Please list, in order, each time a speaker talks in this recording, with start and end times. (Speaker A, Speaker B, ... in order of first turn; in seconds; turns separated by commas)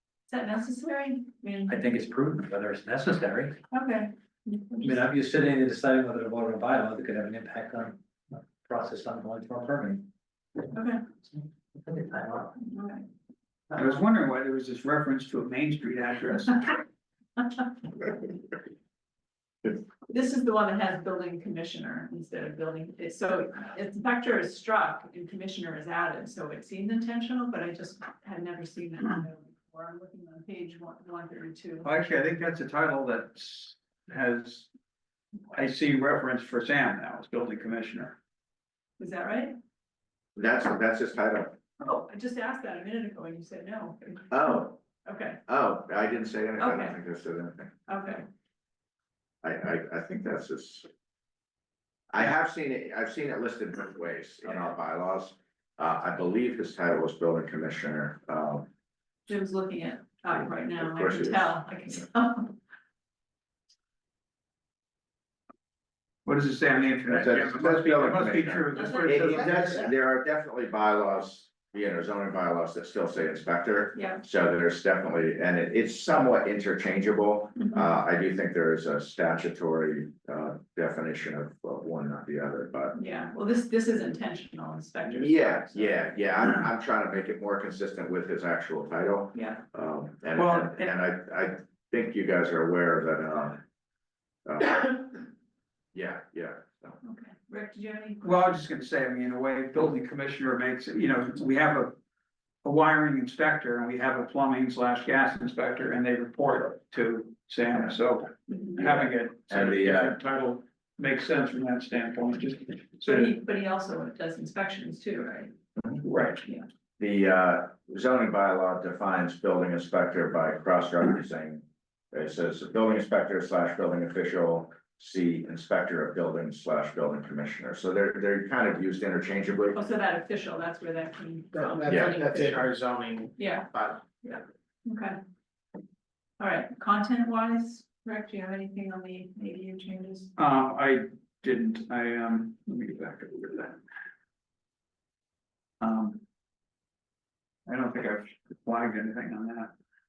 Speaker A: 0.3-1.8, Speaker B: 1.7-3.6, Speaker A: 3.7-5.0, Speaker B: 4.8-10.1, Speaker A: 10.7-11.0, Speaker B: 11.7-12.6, Speaker A: 12.6-13.1, Speaker C: 13.7-16.8, Speaker A: 20.0-31.9, Speaker C: 31.8-34.7, Speaker C: 35.5-38.2, Speaker A: 39.0-39.5, Speaker D: 40.4-41.6, Speaker A: 41.8-45.4, Speaker D: 44.3-44.8, Speaker D: 45.5-47.7, Speaker A: 46.6-47.0, Speaker A: 47.9-48.2, Speaker D: 49.4-50.9, Speaker D: 52.1-58.7, Speaker A: 59.3-62.6, Speaker D: 60.4-61.5, Speaker C: 66.2-69.9, Speaker D: 67.1-83.0, Speaker A: 68.7-69.4, Speaker A: 73.9-74.2, Speaker A: 82.9-86.0, Speaker D: 85.1-93.6, Speaker A: 89.3-89.6, Speaker C: 90.3-90.9, Speaker D: 94.5-95.2, Speaker D: 95.9-97.0, Speaker A: 97.0-98.2, Speaker C: 98.2-102.0, Speaker C: 102.6-113.3, Speaker D: 108.8-110.1, Speaker A: 113.0-115.5, Speaker C: 116.0-116.4, Speaker D: 117.0-129.8, Speaker A: 129.7-132.7, Speaker E: 131.5-134.0, Speaker A: 133.4-135.2, Speaker A: 136.4-140.3, Speaker C: 140.4-143.8, Speaker C: 145.8-146.2, Speaker C: 147.7-149.7